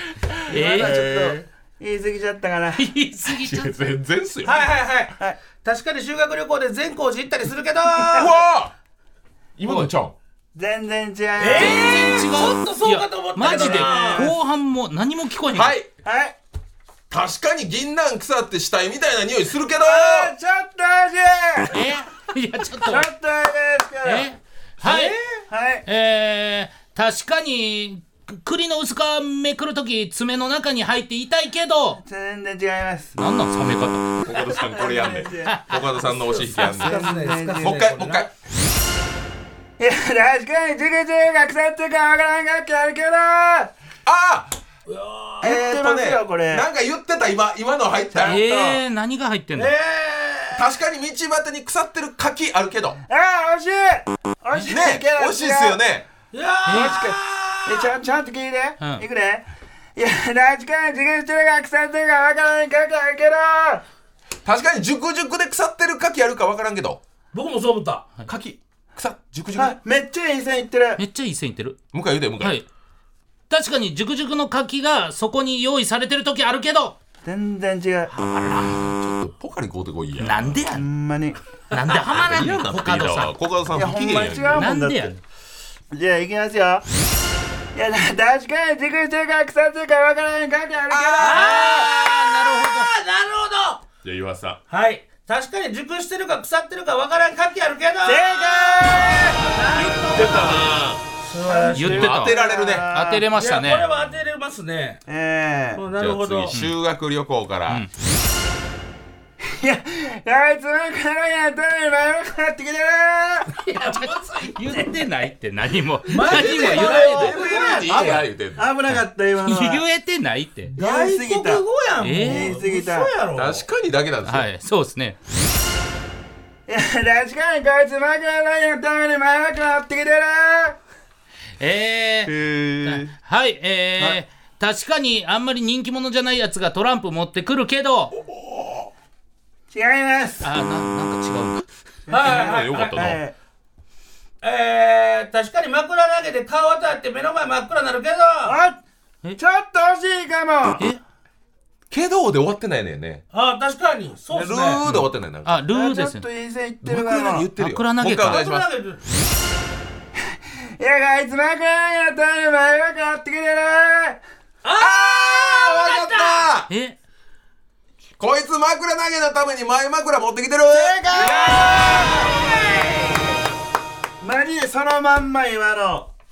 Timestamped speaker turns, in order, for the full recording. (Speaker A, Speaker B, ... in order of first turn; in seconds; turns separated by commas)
Speaker A: 0.5-2.8, Speaker B: 0.5-0.9, Speaker C: 0.8-1.4, Speaker B: 2.8-3.7, Speaker C: 3.2-4.7, Speaker D: 4.4-8.3, Speaker C: 8.1-8.7, Speaker C: 9.6-10.1, Speaker A: 10.5-12.2, Speaker D: 11.4-14.3, Speaker B: 11.5-15.7, Speaker A: 13.4-14.3, Speaker C: 15.5-15.9, Speaker A: 16.0-16.4, Speaker C: 17.1-20.3, Speaker A: 19.8-21.8, Speaker B: 21.7-23.1, Speaker A: 22.8-24.3, Speaker B: 24.0-25.2, Speaker A: 24.8-25.8, Speaker B: 25.8-32.0, Speaker A: 32.0-33.1, Speaker B: 33.2-34.1, Speaker C: 34.2-38.3, Speaker A: 34.4-35.6, Speaker B: 35.5-35.8, Speaker D: 36.1-38.3, Speaker A: 36.6-37.8, Speaker A: 39.8-43.7, Speaker C: 44.0-44.5, Speaker D: 44.9-45.5, Speaker A: 45.4-46.6, Speaker C: 45.4-48.7, Speaker A: 48.1-48.8, Speaker B: 48.2-49.7, Speaker D: 49.5-50.7, Speaker C: 50.5-53.0, Speaker A: 53.1-55.8, Speaker C: 54.7-56.1, Speaker D: 56.3-57.9, Speaker B: 56.7-57.0, Speaker A: 56.7-59.4, Speaker A: 60.0-63.8, Speaker C: 64.4-67.0, Speaker D: 67.3-68.1, Speaker C: 68.3-69.8, Speaker A: 69.5-71.0, Speaker B: 71.0-71.8, Speaker C: 71.9-72.6, Speaker B: 72.4-72.7, Speaker B: 73.5-77.0, Speaker A: 77.2-78.1, Speaker B: 78.1-78.8, Speaker C: 78.4-80.6, Speaker B: 80.2-80.8, Speaker A: 80.7-81.4, Speaker B: 81.7-83.3, Speaker C: 82.1-84.7, Speaker A: 83.7-85.1, Speaker B: 84.5-85.2, Speaker A: 85.9-86.8, Speaker A: 87.7-91.8, Speaker C: 90.9-91.5, Speaker D: 91.2-93.8, Speaker B: 91.2-92.9, Speaker C: 94.0-94.6, Speaker D: 94.7-102.1, Speaker A: 98.0-99.4, Speaker C: 99.8-101.0, Speaker A: 101.4-103.2, Speaker B: 101.7-102.3, Speaker C: 101.8-102.9, Speaker B: 102.9-103.9, Speaker D: 103.3-105.0, Speaker A: 105.1-105.8, Speaker D: 105.7-106.5, Speaker C: 105.9-107.9, Speaker A: 109.6-113.5, Speaker B: 113.6-117.4, Speaker D: 116.1-118.2, Speaker C: 116.3-118.6, Speaker A: 116.4-119.8, Speaker B: 118.9-120.7, Speaker A: 120.7-121.6, Speaker D: 120.7-123.7, Speaker B: 122.0-122.5, Speaker A: 122.2-123.1, Speaker C: 123.3-124.5, Speaker B: 124.2-125.2, Speaker A: 126.7-130.8, Speaker B: 131.6-138.1, Speaker C: 132.3-133.1, Speaker C: 138.2-138.9, Speaker A: 139.7-140.4, Speaker B: 140.4-141.6, Speaker A: 142.1-143.3, Speaker D: 142.1-143.1, Speaker C: 142.2-143.2, Speaker D: 144.4-148.6, Speaker A: 148.4-148.8, Speaker A: 149.4-150.8, Speaker C: 151.9-153.2, Speaker D: 153.3-154.8, Speaker C: 154.3-155.6, Speaker B: 154.9-156.2, Speaker A: 155.7-157.5, Speaker C: 156.8-158.7, Speaker B: 157.6-158.4, Speaker D: 158.2-159.0, Speaker A: 160.8-164.2, Speaker D: 164.6-166.5, Speaker C: 164.8-166.7, Speaker B: 166.7-166.9, Speaker C: 168.2-172.3, Speaker A: 170.7-172.6, Speaker D: 171.1-173.3, Speaker A: 174.2-176.1